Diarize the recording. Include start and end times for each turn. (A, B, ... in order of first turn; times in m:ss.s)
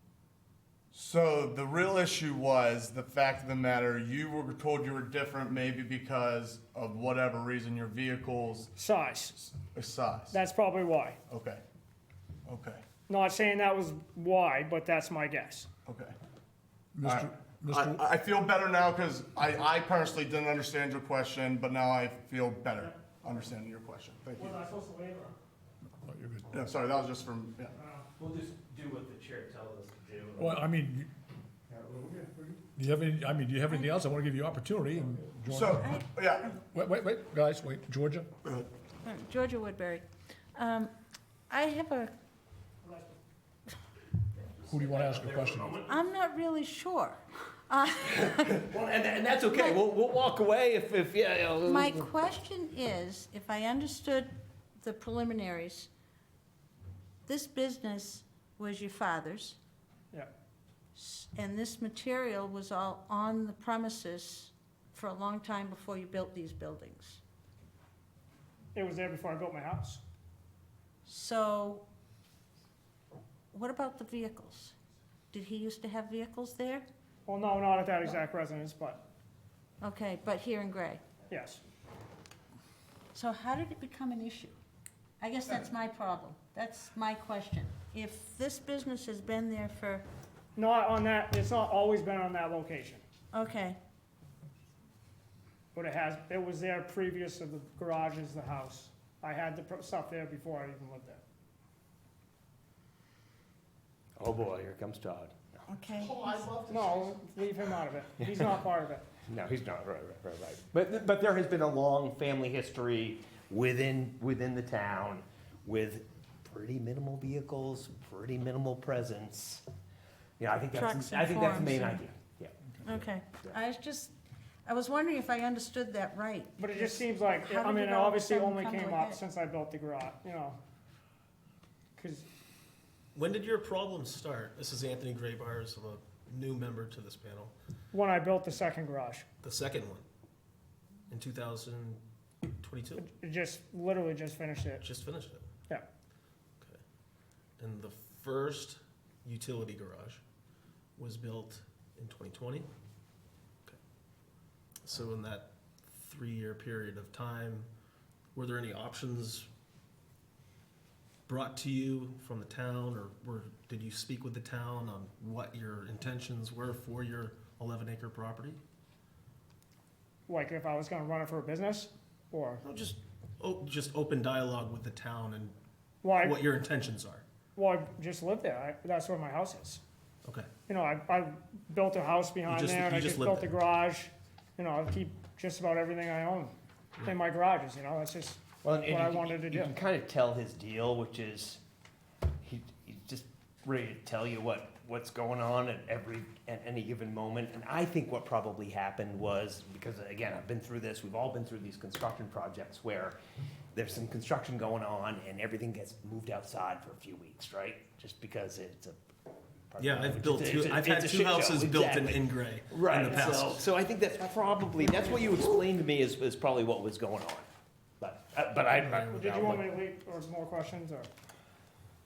0:00.9-0:08.7 A
0:08.8-0:09.4 B
0:09.4-0:10.4 A
0:10.3-0:11.2 B
0:11.3-0:11.6 A
0:12.5-0:12.8 A
0:13.1-0:15.7 B
0:15.9-0:16.2 A
0:16.9-0:18.1 C
0:17.0-0:24.6 A
0:24.4-0:25.4 B
0:26.0-0:26.5 C
0:26.5-0:27.7 A
0:27.8-0:28.1 B
0:28.2-0:30.6 D
0:30.4-0:31.1 C
0:32.8-0:36.0 C
0:33.7-0:34.0 E
0:35.5-0:36.5 A
0:35.8-0:36.5 E
0:36.6-0:38.3 C
0:39.0-0:40.9 E
0:41.5-0:42.1 E
0:44.7-0:45.8 C
0:45.8-0:48.6 E
0:48.4-0:52.1 D
0:49.5-0:49.8 E
0:51.6-0:55.9 E
0:57.3-0:59.6 E
1:01.0-1:07.2 E
1:08.7-1:10.0 B
1:11.1-1:11.8 E
1:13.5-1:14.7 E
1:15.3-1:16.8 E
1:17.3-1:19.0 B
1:19.8-1:21.0 E
1:21.3-1:21.6 B
1:23.1-1:24.6 E
1:25.2-1:30.0 E
1:30.6-1:33.0 B
1:33.3-1:33.8 E
1:35.7-1:41.2 B
1:44.2-1:45.6 D
1:45.7-1:46.6 E
1:46.7-1:49.0 B
1:49.3-1:59.6 D
2:00.4-2:03.6 D
2:00.7-2:02.0 E
2:02.8-2:04.1 E
2:04.7-2:09.2 E
2:06.6-2:10.6 B
2:12.0-2:12.3 B
2:13.1-2:17.5 F
2:17.9-2:19.2 B
2:19.4-2:20.0 F
2:21.1-2:22.0 F
2:22.6-2:23.1 F
2:23.0-2:24.8 B
2:24.8-2:25.5 F
2:27.6-2:30.2 F
2:31.0-2:32.7 F
2:34.8-2:37.7 F
2:38.3-2:39.5 F
2:41.3-2:48.6 F
2:50.3-2:52.6 B
2:52.6-2:55.6 F
2:56.0-2:56.4 B
2:56.2-2:57.2 F
2:57.6-2:59.8 B
3:00.7-3:06.5 B
3:02.5-3:03.5 F
3:07.0-3:09.7 B
3:08.6-3:11.6 D
3:12.4-3:23.2 D
3:23.7-3:29.0 D
3:29.7-3:37.5 D
3:29.8-3:33.7 F
3:38.0-3:39.7 D
3:38.8-3:39.2 F
3:39.1-3:41.1 B